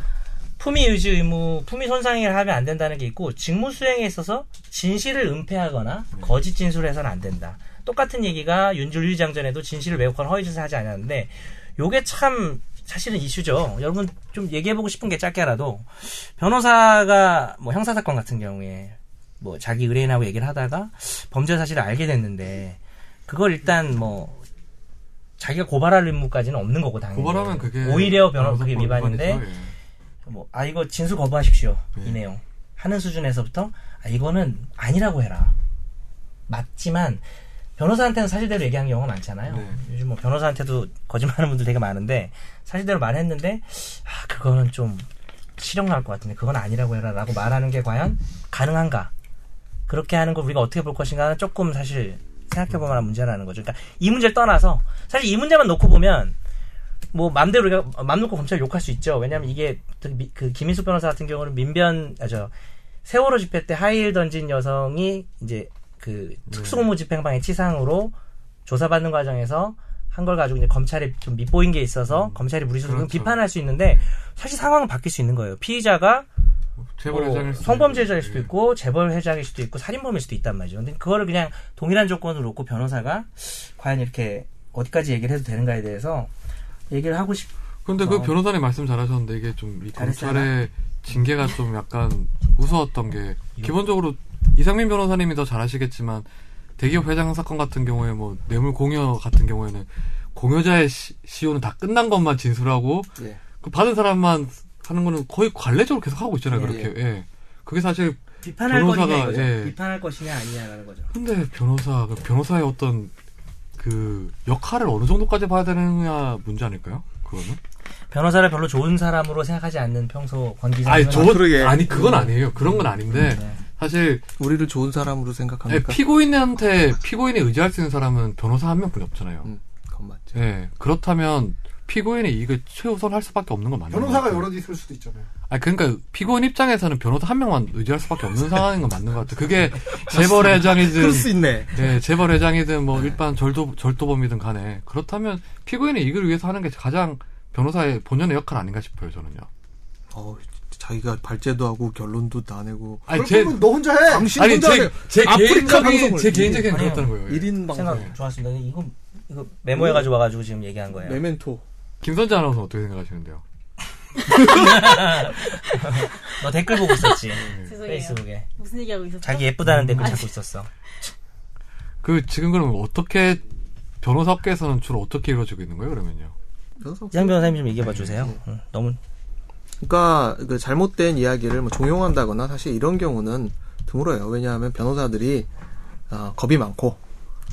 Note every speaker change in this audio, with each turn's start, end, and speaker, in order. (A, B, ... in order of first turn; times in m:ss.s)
0:00.6-0:24.4 A
0:25.4-0:29.4 A
0:27.2-0:29.7 B
0:30.3-0:35.6 A
0:36.5-0:37.2 A
0:37.8-0:49.1 A
0:39.5-0:39.8 B
0:49.9-0:56.4 A
0:57.1-1:02.5 A
1:03.0-1:08.2 A
1:06.5-1:06.8 B
1:08.7-1:16.3 A
1:12.1-1:14.0 B
1:17.0-1:18.5 B
1:17.1-1:26.3 A
1:26.9-1:28.3 A
1:27.9-1:36.3 B
1:29.9-1:30.6 A
1:36.8-1:49.8 B
1:46.5-1:46.9 C
1:48.4-1:51.1 A
1:51.1-1:53.1 B
1:53.8-1:57.6 B
1:58.1-2:02.3 A
2:00.8-2:04.2 B
2:01.1-2:02.3 C
2:03.1-2:03.6 A
2:04.4-2:06.0 C
2:05.7-2:09.5 B
2:09.4-2:10.4 C
2:10.4-2:14.5 B
2:13.9-2:15.3 D
2:15.5-2:29.5 B
2:20.0-2:21.9 C
2:30.1-2:33.1 C
2:33.1-2:38.1 B
2:33.1-2:34.4 D
2:34.1-2:38.1 C
2:36.7-2:37.2 A
2:37.7-2:41.2 A
2:39.8-2:40.1 C
2:41.0-2:41.6 C
2:42.0-2:43.4 B
2:44.3-2:48.5 A
2:47.5-2:50.3 E
2:47.5-2:47.8 B
2:49.2-2:50.7 A
2:49.6-2:50.2 B
2:52.0-2:53.4 B
2:54.0-2:56.4 B
2:56.8-2:58.4 C
2:57.1-2:59.0 A
2:57.8-2:58.1 B
2:59.8-3:05.5 C
3:06.1-3:07.0 C